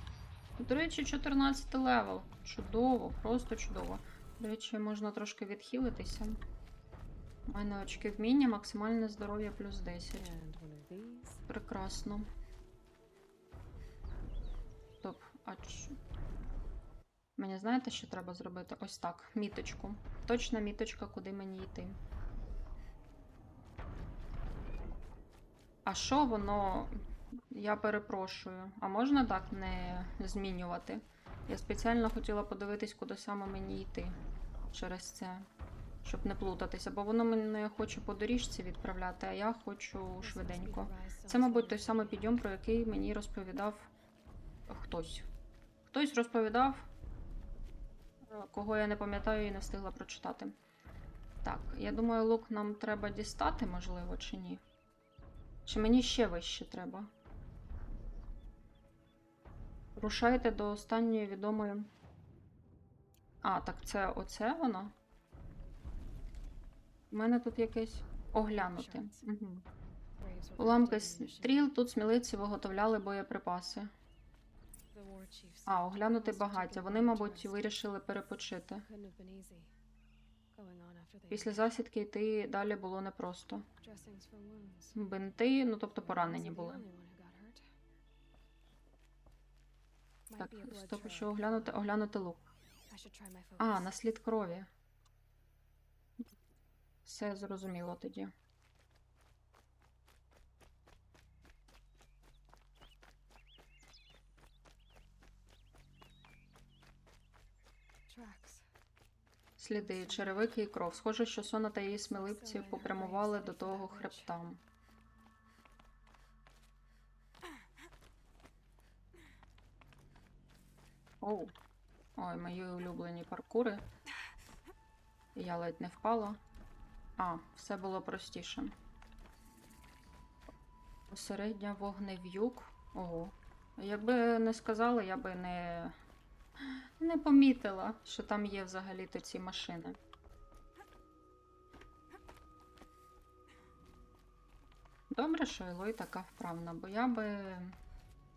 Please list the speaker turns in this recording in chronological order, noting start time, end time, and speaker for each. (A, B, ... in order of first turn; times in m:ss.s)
0:00.6-0:06.4 A
0:07.5-0:10.3 A
0:10.1-0:11.4 B
0:11.5-0:12.3 A
0:15.0-0:16.0 A
0:17.4-0:22.0 A
0:25.8-0:26.9 A
0:27.5-0:34.2 A
0:34.7-0:35.5 A
0:36.0-0:43.9 A
0:40.2-0:42.3 B
0:44.7-0:45.3 A
0:45.9-0:46.9 A
0:48.3-0:50.5 A
0:51.4-0:54.6 A
0:55.6-0:57.1 A
1:00.0-1:01.9 A
1:03.4-1:04.9 A
1:07.1-1:09.6 A
1:08.5-1:09.2 B
1:10.2-1:11.7 B
1:10.6-1:13.9 A
1:14.9-1:17.6 B
1:15.7-1:18.8 A
1:18.9-1:19.7 B
1:20.5-1:21.7 B
1:21.3-1:23.6 A
1:23.8-1:25.0 B
1:24.9-1:26.8 A
1:26.0-1:27.6 B
1:30.3-1:31.8 B
1:30.4-1:32.5 A
1:32.9-1:33.9 B
1:33.6-1:34.7 A
1:37.0-1:38.3 A
1:48.1-1:48.6 B
1:49.6-1:54.6 A
1:49.8-1:50.5 B
1:52.1-1:54.3 B
2:01.2-2:01.5 A
2:02.2-2:03.8 A
2:05.4-2:06.4 A
2:07.2-2:08.7 A
2:11.1-2:15.9 A
2:17.0-2:20.0 A
2:25.1-2:27.8 A